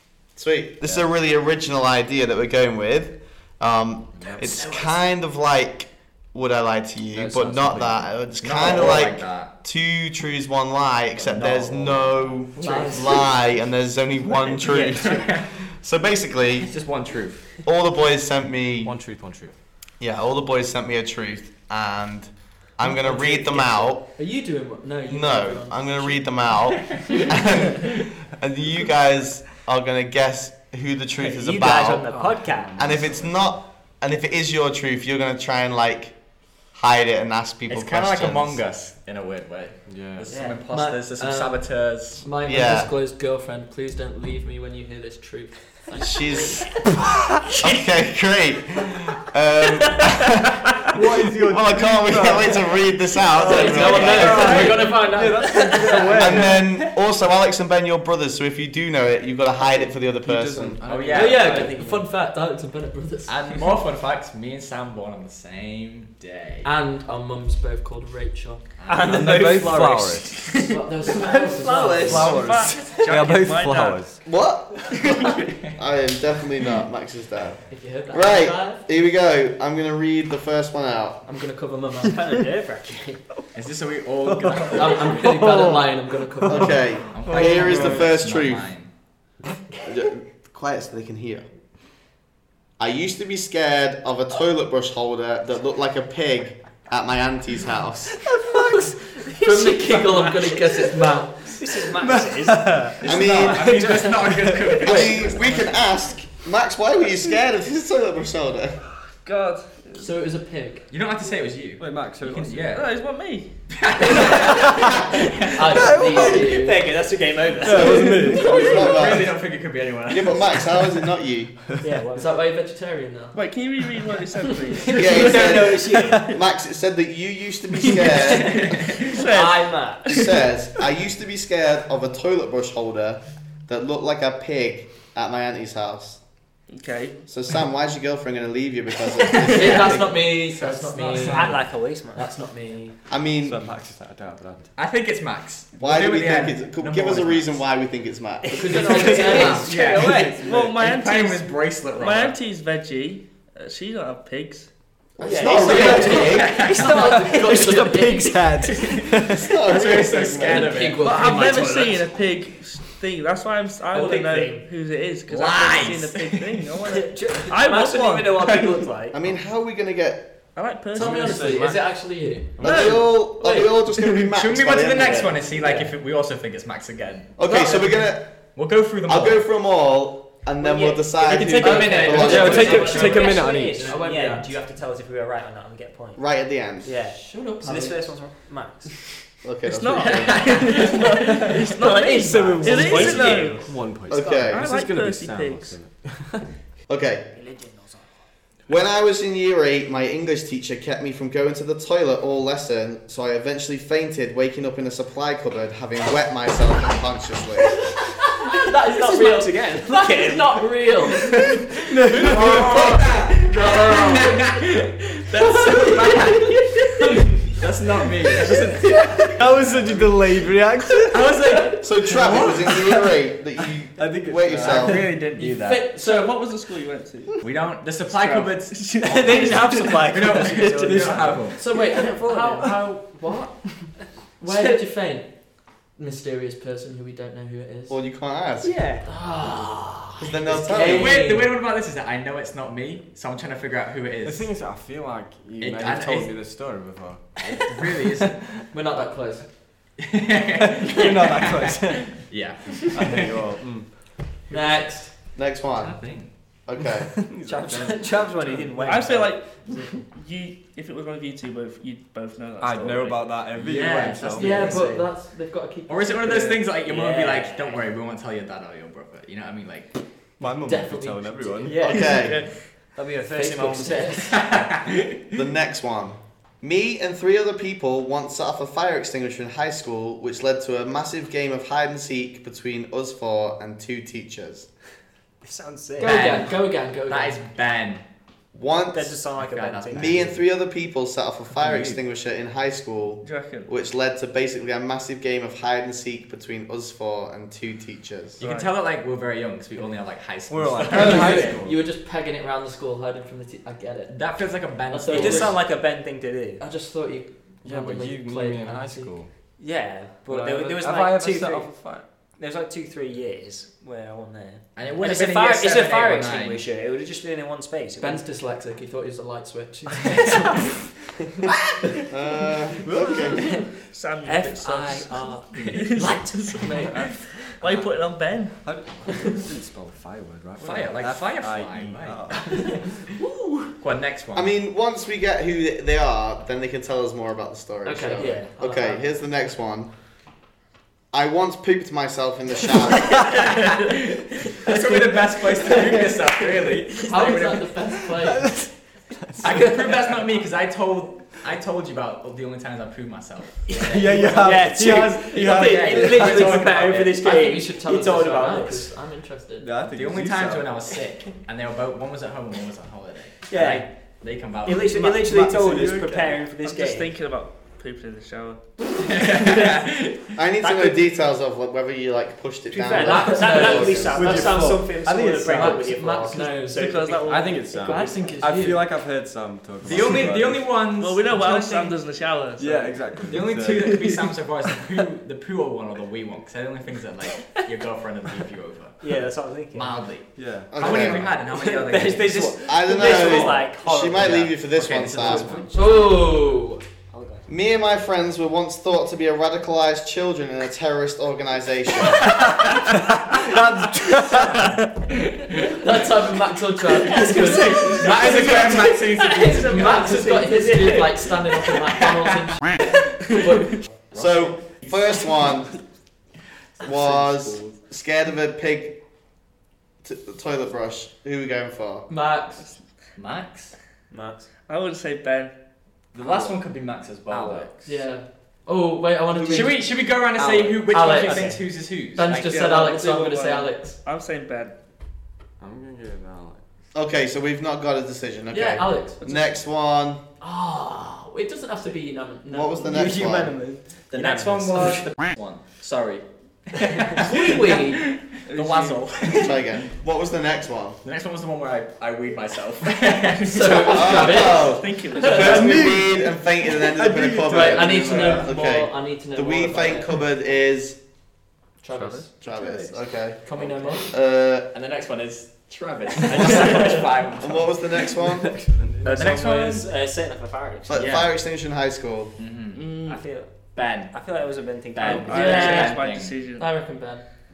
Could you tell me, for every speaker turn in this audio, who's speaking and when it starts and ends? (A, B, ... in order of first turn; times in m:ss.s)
0:00.3-0:16.7 A
0:04.4-0:04.9 B
0:07.1-0:08.1 C
0:08.2-0:09.5 D
0:11.1-0:13.3 D
0:12.6-0:13.0 E
0:12.6-0:13.1 B
0:14.6-0:15.5 D
0:14.7-0:15.0 E
0:16.6-0:17.6 D
0:17.6-0:19.0 A
0:18.8-0:19.5 C
0:20.0-0:24.1 A
0:22.9-0:26.4 B
0:25.1-0:32.1 A
0:31.2-0:32.9 E
0:32.2-0:32.7 C
0:32.7-0:36.1 A
0:36.7-0:38.6 A
0:37.7-0:42.2 D
0:39.9-0:40.4 C
0:40.3-0:40.6 E
0:40.7-0:46.8 B
0:42.4-0:42.9 A
0:46.0-0:46.9 A
0:47.5-0:50.5 A
0:50.9-0:56.8 C
0:51.4-0:54.8 A
0:53.4-0:56.1 B
0:55.5-0:56.2 E
0:56.1-1:00.8 A
0:59.6-1:01.8 C
1:00.8-1:01.8 D
1:01.1-1:03.8 B
1:01.1-1:02.0 E
1:03.3-1:06.7 D
1:06.6-1:08.6 B
1:08.8-1:09.5 D
1:08.9-1:13.0 E
1:09.0-1:10.4 C
1:10.6-1:12.4 B
1:11.2-1:14.3 C
1:12.1-1:14.1 F
1:14.2-1:21.2 A
1:17.7-1:18.8 B
1:21.2-1:22.2 B
1:22.0-1:23.2 E
1:23.5-1:25.3 D
1:24.2-1:25.8 C
1:24.7-1:27.0 B
1:26.5-1:28.7 A
1:27.1-1:28.9 D
1:27.2-1:28.0 C
1:29.8-1:31.4 A
1:32.8-1:38.2 A
1:38.3-1:39.0 C
1:38.5-1:40.9 E
1:39.4-1:41.6 B
1:41.4-1:44.2 E
1:41.9-1:45.1 C
1:43.0-1:43.7 A
1:43.4-1:45.8 D
1:44.8-1:48.8 A
1:49.2-1:50.1 F
1:50.0-1:50.9 B
1:50.9-1:53.0 D
1:51.8-1:52.8 C
1:52.7-1:53.5 F
1:53.7-1:55.2 D
1:54.0-1:54.9 B
1:54.4-1:54.9 C
1:55.5-1:56.8 B
1:55.7-1:56.6 C
1:55.8-1:58.5 E
1:57.6-1:58.7 C
1:57.8-1:59.5 A
1:58.4-2:00.8 D
2:00.1-2:01.6 A
2:01.8-2:02.3 E
2:02.2-2:03.4 B
2:03.3-2:05.5 F
2:04.8-2:06.2 E
2:04.9-2:09.0 A
2:05.7-2:06.2 C
2:08.0-2:08.3 E
2:08.6-2:09.0 D
2:09.0-2:10.4 F
2:09.2-2:10.0 E
2:09.4-2:09.8 B
2:10.0-2:16.2 A
2:16.7-2:17.2 F
2:17.3-2:20.2 A
2:19.5-2:23.0 B
2:19.6-2:21.6 D
2:21.2-2:22.3 E
2:23.1-2:23.6 A
2:23.4-2:24.7 C
2:24.8-2:27.7 D
2:25.8-2:29.2 A
2:28.4-2:30.5 E
2:28.5-2:29.7 B
2:28.9-2:30.5 C
2:29.3-2:32.4 D
2:29.7-2:34.7 F
2:35.2-2:36.5 A
2:35.2-2:36.8 E
2:35.4-2:38.9 B
2:35.4-2:37.3 D
2:36.7-2:39.5 C
2:38.7-2:41.4 D
2:39.3-2:40.8 A
2:40.2-2:42.0 B
2:41.0-2:48.8 F
2:41.4-2:41.8 E
2:43.9-2:44.6 E
2:45.3-2:46.6 D
2:46.8-2:49.2 E
2:49.1-2:50.3 A
2:50.5-2:51.6 F
2:50.9-2:53.7 B
2:50.9-2:53.2 C
2:52.6-2:55.4 A
2:52.6-2:52.9 F
2:54.2-2:59.5 D
2:55.6-2:55.9 E
2:57.4-3:02.9 A
3:00.6-3:06.3 E
3:01.3-3:04.4 C
3:01.6-3:04.5 B
3:01.6-3:02.7 D
3:06.2-3:06.9 A
3:06.8-3:09.0 E
3:07.0-3:08.0 B
3:09.4-3:10.6 A
3:09.6-3:13.7 F
3:10.0-3:11.4 D
3:11.4-3:16.5 C
3:11.8-3:14.5 E
3:14.1-3:14.7 A
3:14.5-3:15.8 F
3:16.9-3:17.3 A
3:17.3-3:18.2 E
3:18.7-3:27.9 A
3:28.2-3:31.5 B
3:28.6-3:31.2 E
3:31.8-3:32.9 C
3:32.1-3:40.4 D
3:32.2-3:34.6 B
3:35.4-3:37.5 B
3:39.3-3:41.4 C
3:41.0-3:43.1 D
3:41.8-3:45.1 A
3:42.1-3:42.4 C
3:44.0-3:45.3 C
3:44.5-3:45.8 D
3:45.4-3:46.4 B
3:45.9-3:47.4 F
3:47.4-3:51.6 D
3:48.0-3:50.1 F
3:49.0-3:52.7 E
3:50.8-3:51.4 C
3:51.5-3:55.4 B
3:54.4-3:54.8 E
3:55.9-3:58.0 B
3:57.9-3:58.7 A
3:58.6-3:59.1 E
3:59.0-4:01.5 B
4:00.2-4:01.2 A
4:00.7-4:04.5 D
4:04.2-4:07.7 C
4:05.6-4:06.6 D
4:07.4-4:08.4 D
4:08.7-4:09.5 B
4:10.0-4:13.3 D
4:10.6-4:14.1 C
4:14.5-4:15.1 B
4:15.3-4:17.2 A
4:15.7-4:16.3 D
4:17.1-4:19.0 C
4:17.4-4:20.0 E
4:18.8-4:23.4 F
4:22.6-4:24.8 C
4:23.5-4:24.8 D
4:24.4-4:26.6 B
4:24.4-4:25.1 E
4:25.9-4:30.0 D
4:26.8-4:27.9 E
4:30.4-4:31.8 C
4:30.6-4:31.7 B
4:31.6-4:34.4 E
4:31.8-4:32.4 A
4:31.9-4:32.4 F
4:33.3-4:34.4 B
4:34.2-4:35.4 D
4:35.3-4:44.7 A
4:45.4-4:46.4 E
4:46.0-4:47.4 B
4:46.0-4:48.0 D
4:48.5-4:49.2 A
4:48.9-4:50.4 E
4:49.4-4:50.3 D
4:49.9-4:58.4 A
4:51.6-4:52.0 C
4:53.2-4:53.7 F
4:58.4-5:01.6 D
4:58.4-4:58.7 F
5:00.5-5:01.8 C
5:00.9-5:04.4 B
5:04.1-5:05.6 D
5:04.9-5:05.6 B
5:05.1-5:06.6 E
5:06.6-5:09.1 B
5:07.6-5:09.3 C
5:09.6-5:18.2 E
5:10.3-5:12.1 C
5:14.7-5:16.6 D
5:18.0-5:20.8 B
5:22.1-5:23.4 A
5:22.8-5:23.3 C
5:23.9-5:28.6 F
5:24.3-5:27.0 B
5:24.4-5:26.1 D
5:27.6-5:27.9 C
5:28.6-5:33.0 C
5:30.6-5:32.6 D
5:33.2-5:33.7 B
5:33.8-5:34.5 D
5:34.3-5:39.9 A
5:37.8-5:39.0 B
5:38.2-5:38.5 E
5:41.1-5:43.4 A
5:43.3-5:47.8 D
5:47.0-5:48.6 B
5:48.2-5:49.8 C
5:49.4-5:54.4 D
5:53.7-5:58.9 E
5:53.8-5:56.8 C
5:55.3-5:57.2 D
5:57.2-5:59.7 B
5:59.6-6:00.8 C
5:59.9-6:05.1 D
6:03.5-6:03.9 E
6:04.6-6:07.1 E
6:04.9-6:06.5 C
6:06.6-6:08.6 F
6:09.0-6:10.3 D
6:09.5-6:09.7 E
6:10.4-6:14.5 A
6:10.6-6:11.0 E
6:12.7-6:18.3 E
6:12.9-6:14.9 B
6:14.1-6:16.0 C
6:15.5-6:17.0 B
6:16.7-6:17.9 F
6:17.3-6:20.9 C
6:17.8-6:18.8 B
6:19.8-6:21.9 D
6:20.9-6:23.2 F
6:22.6-6:24.3 C
6:23.3-6:29.1 D
6:29.0-6:30.0 E
6:29.7-6:33.6 D
6:30.3-6:30.9 C
6:30.7-6:31.3 A
6:30.8-6:36.2 E
6:32.6-6:35.5 A
6:34.5-6:35.7 D
6:35.7-6:36.8 B
6:37.1-6:37.4 E
6:37.5-6:42.4 A
6:42.6-6:44.7 C
6:45.4-6:45.6 D
6:45.6-6:53.8 B
6:47.0-6:51.8 E
6:47.8-6:50.2 D
6:54.1-6:55.4 D
6:54.1-6:55.7 A
6:56.8-6:59.0 A
6:57.1-6:57.7 C
7:00.0-7:02.1 A
7:02.1-7:02.7 B
7:03.2-7:03.8 D
7:04.1-7:04.5 E
7:04.7-7:05.5 F
7:06.1-7:07.7 D
7:06.2-7:06.5 C
7:07.3-7:08.0 C
7:07.8-7:09.8 B
7:09.4-7:09.6 C
7:09.5-7:12.7 D
7:10.4-7:10.7 C
7:10.9-7:14.0 B
7:11.2-7:11.6 E
7:12.3-7:14.7 F
7:15.6-7:16.6 C
7:16.9-7:20.2 A
7:18.5-7:19.2 B
7:19.2-7:19.5 F
7:20.4-7:23.0 B
7:22.5-7:23.5 A
7:22.8-7:25.0 E
7:24.1-7:29.7 D
7:24.8-7:25.0 B
7:27.2-7:28.1 B
7:28.4-7:29.4 F
7:29.3-7:31.0 A
7:31.0-7:34.2 D
7:33.4-7:35.5 B
7:33.7-7:35.8 F
7:33.8-7:41.0 A
7:35.3-7:38.5 C
7:37.5-7:40.1 B
7:41.8-7:42.3 B
7:41.9-7:43.0 C
7:42.4-7:44.7 A
7:43.4-7:44.1 B
7:44.7-7:48.1 D
7:46.3-7:48.6 A
7:48.2-7:49.3 C
7:49.0-7:51.2 E
7:49.1-7:49.9 D
7:50.9-7:52.4 A
7:50.9-7:51.3 D
7:52.4-7:52.9 D
7:52.7-7:53.3 F
7:53.1-7:56.0 E
7:53.7-7:54.2 D
7:54.9-7:56.3 D
7:55.0-7:56.7 F
7:55.3-7:56.0 B
7:56.6-7:57.2 B